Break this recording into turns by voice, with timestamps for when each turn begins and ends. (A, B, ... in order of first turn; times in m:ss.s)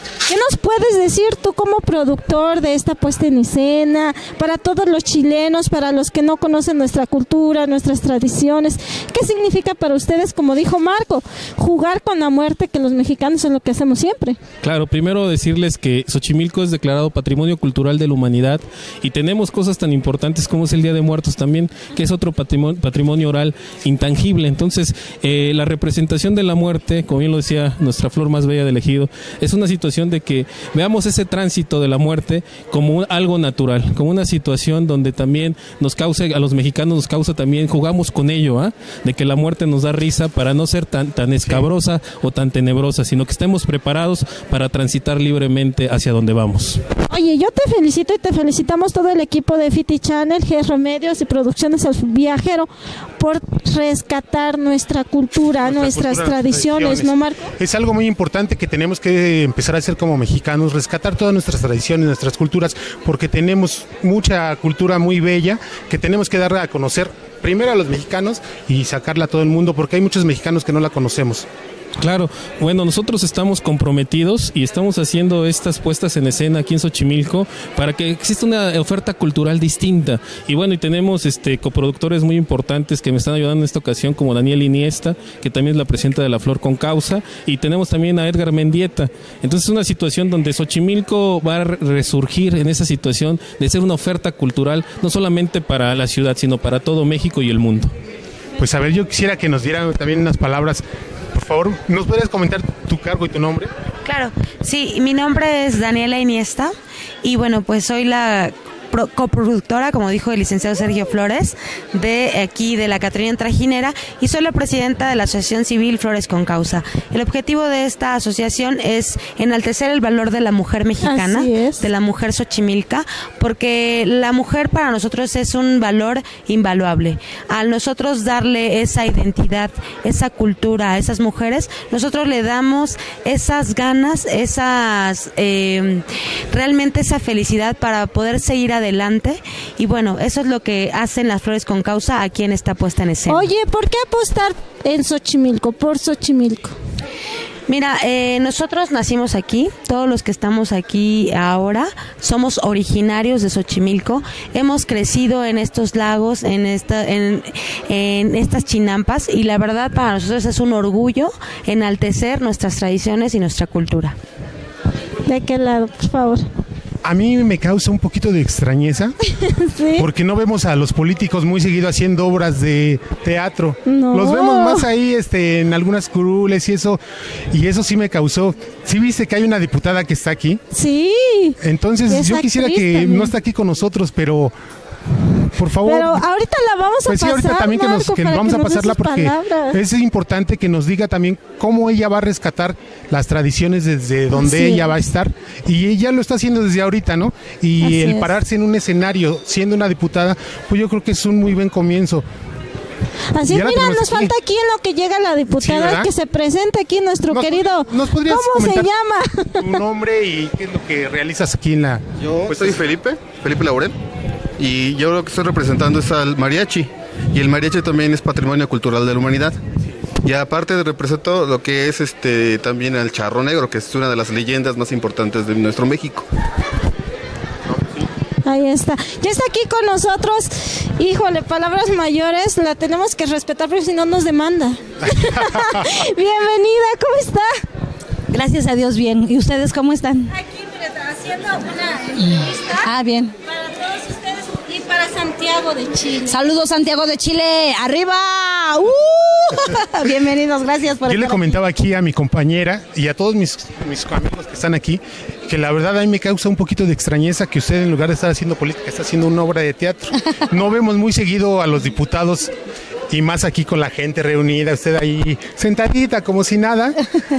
0:00.2-0:14.4 A
0:14.6-0:46.8 B
0:47.1-0:57.5 A
0:55.6-1:11.5 C
1:12.0-1:37.9 B
1:38.6-1:40.8 C
1:41.3-1:43.7 C
1:44.0-1:46.7 D
1:47.2-2:23.5 D
2:01.0-2:01.8 A
2:23.3-2:26.8 A
2:27.7-2:44.2 D
2:45.2-2:46.4 A
2:47.0-2:49.1 C
2:49.6-2:50.0 A
2:50.0-3:00.6 C
2:53.9-2:54.9 A
3:00.7-3:01.6 A
3:01.6-3:04.6 C
3:02.1-3:03.3 A
3:05.5-3:06.2 C
3:05.8-3:09.8 A
3:07.1-3:22.2 C
3:14.3-3:14.8 A
3:17.8-3:18.3 A
3:23.3-3:29.8 A
3:23.5-3:24.3 C
3:25.5-3:26.1 C
3:27.3-3:28.9 C
3:29.6-3:32.9 C
3:32.2-3:33.9 E
3:34.6-3:39.6 E
3:40.2-3:46.2 E
3:48.4-3:57.5 A
3:58.3-4:00.3 F
4:00.4-4:02.8 A
4:02.8-4:03.3 F
4:03.5-4:06.4 A
4:06.2-4:11.5 F
4:11.1-4:22.5 C
4:23.1-4:27.0 C